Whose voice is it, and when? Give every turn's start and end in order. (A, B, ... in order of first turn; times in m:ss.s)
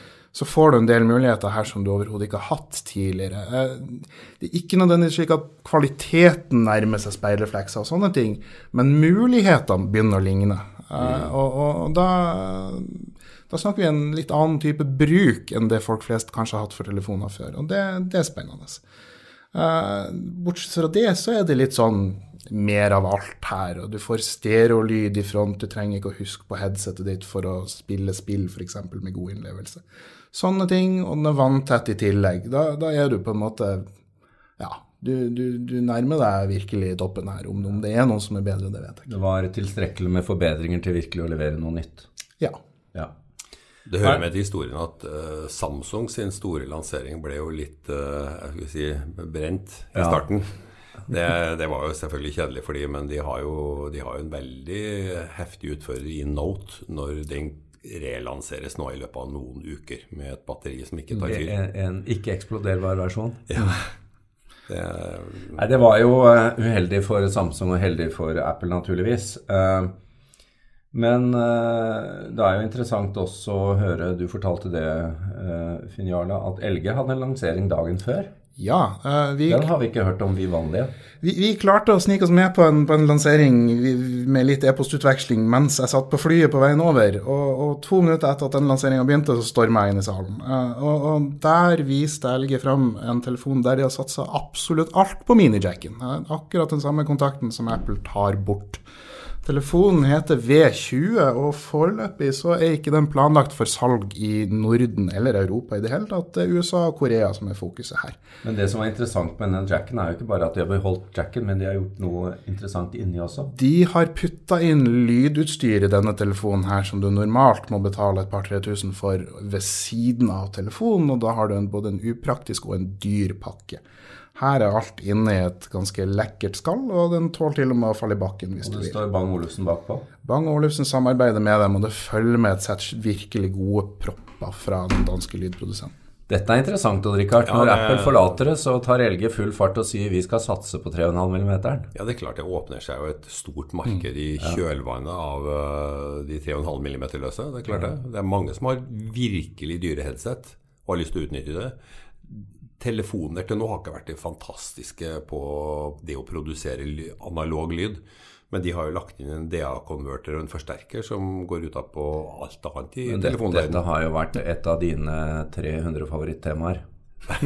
0:00.3-0:18.8 A
0:11.0-0:11.3 B
0:19.5-0:33.8 A
0:34.6-0:39.1 A
0:39.1-0:42.1 C
0:43.9-0:50.4 B
0:49.9-0:50.2 C
0:51.1-1:01.5 B
1:01.2-1:03.4 C
1:03.5-1:03.8 B
1:04.7-1:05.6 B
1:05.6-1:09.9 C
1:10.9-1:18.3 C
1:18.6-1:19.7 A
1:19.5-1:20.9 C
1:21.2-1:38.8 A
1:39.4-1:48.2 A
1:48.4-1:53.5 C
1:53.5-2:03.8 A
2:04.3-2:09.0 A
2:08.6-2:10.0 C
2:10.2-2:15.9 A
2:16.3-2:21.9 C
2:17.4-2:18.4 B
2:21.9-2:43.8 B
2:43.0-2:46.8 C